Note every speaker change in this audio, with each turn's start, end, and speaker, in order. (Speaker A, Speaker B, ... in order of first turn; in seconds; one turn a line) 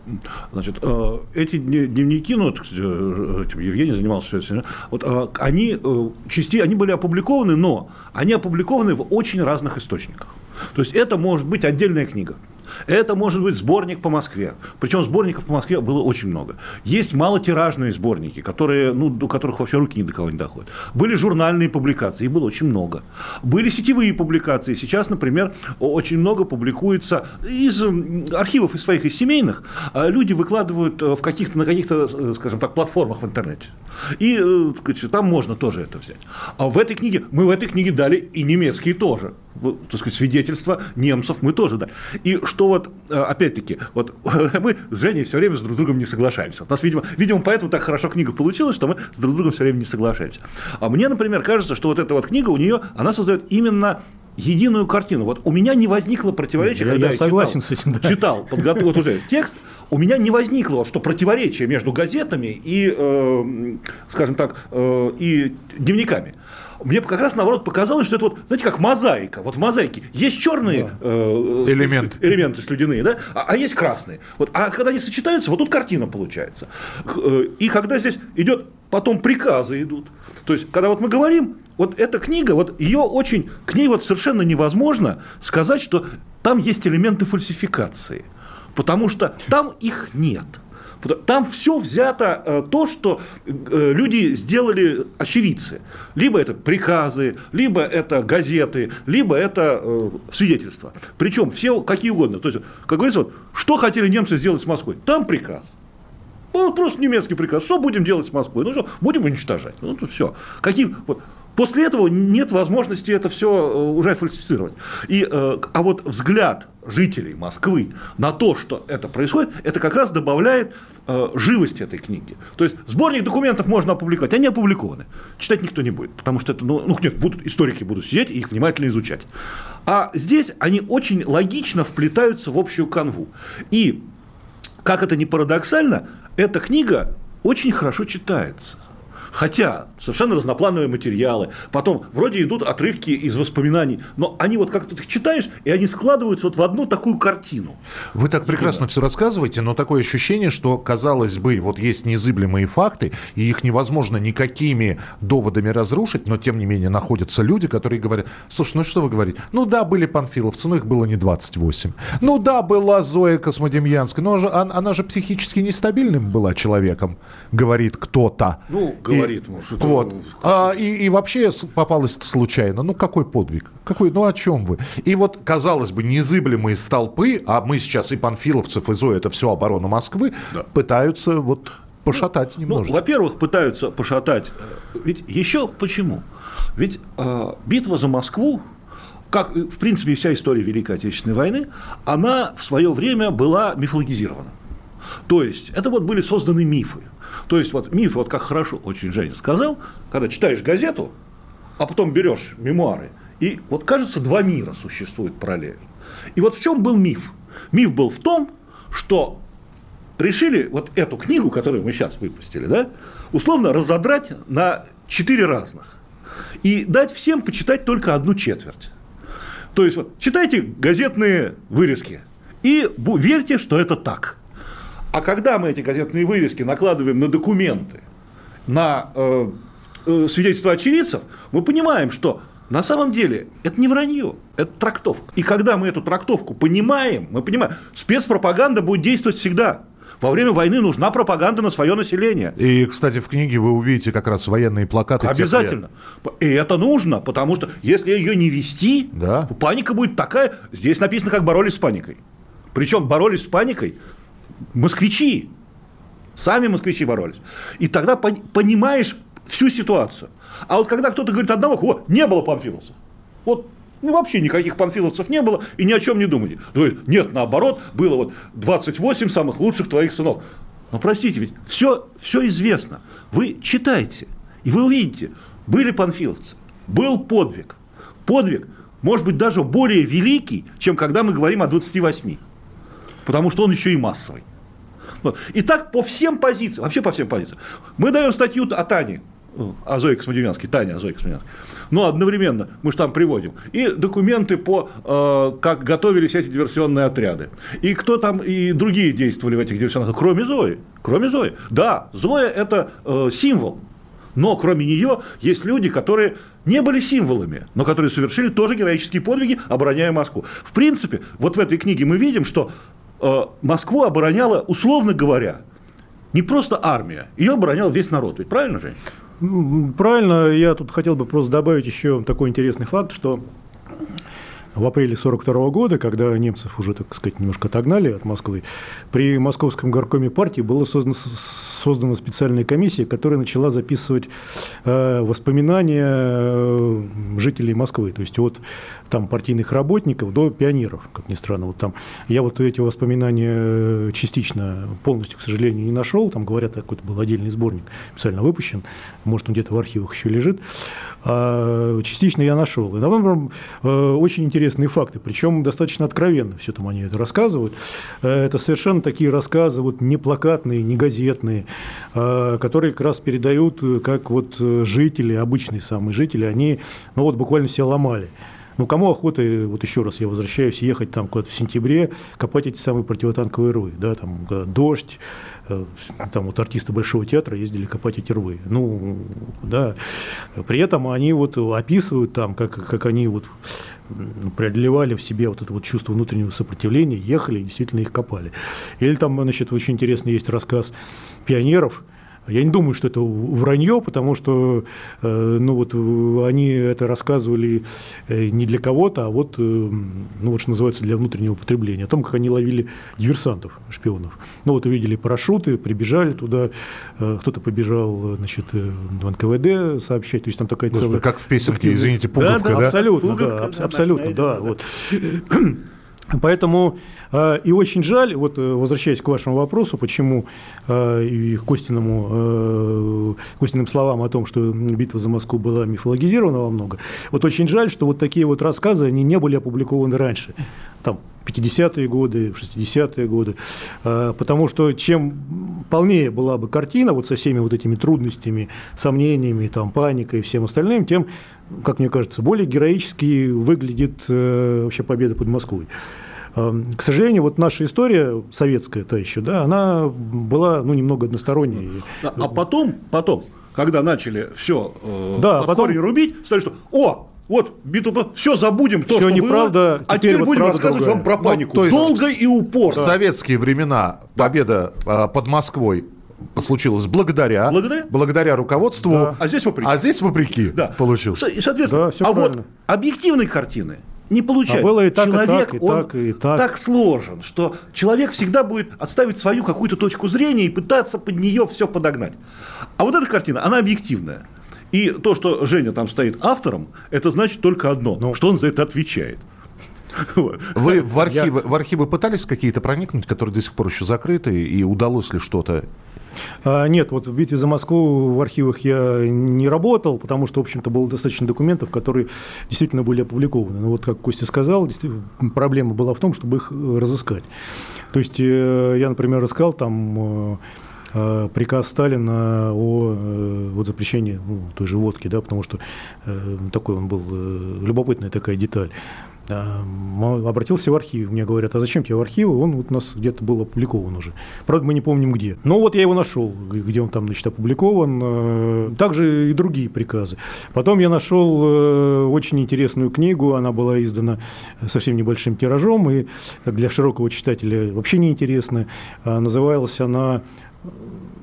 Speaker A: 0.1-105.7
Speaker B: 56.6-58.8
Speaker C: 71.6-72.3
Speaker A: 106.5-129.3
Speaker A: 129.9-134.0
Speaker A: 134.8-138.8
Speaker A: 139.3-147.8
Speaker C: 148.1-183.0
Speaker A: 148.5-148.8
Speaker A: 168.7-170.6
Speaker A: 182.7-186.2
Speaker A: 186.8-188.7
Speaker A: 189.3-194.6
Speaker A: 195.3-201.1
Speaker A: 201.8-205.8
Speaker A: 206.3-209.4
Speaker A: 210.2-216.0
Speaker A: 216.6-218.9
Speaker A: 219.7-224.4
Speaker A: 225.1-228.0
Speaker A: 228.7-242.6
Speaker C: 242.6-245.8
Speaker A: 245.2-252.2
Speaker C: 249.1-249.5
Speaker A: 252.7-254.0
Speaker A: 254.7-255.5
Speaker A: 256.4-282.4
Speaker A: 283.3-284.4
Speaker A: 285.2-303.8
Speaker A: 304.4-315.6
Speaker A: 316.3-319.0
Speaker B: 319.4-323.4
Speaker B: 324.8-334.3
Speaker B: 334.8-350.6
Speaker B: 351.2-380.0
Speaker B: 380.6-383.6
Speaker B: 384.1-390.9
Speaker B: 391.5-415.8
Speaker C: 410.9-413.0
Speaker A: 412.4-414.7
Speaker B: 416.3-445.9
Speaker B: 446.6-452.6
Speaker A: 452.2-463.2
Speaker B: 455.4-456.0
Speaker B: 459.1-461.3
Speaker C: 461.4-471.4
Speaker A: 467.7-468.1
Speaker B: 469.1-469.4
Speaker A: 469.4-482.4
Speaker B: 471.9-472.7
Speaker B: 474.7-476.7
Speaker A: 483.0-489.4
Speaker A: 490.2-490.8
Speaker C: 490.7-495.9
Speaker B: 496.6-507.5
Speaker B: 508.1-510.6
Speaker B: 511.1-518.9
Speaker B: 519.5-540.4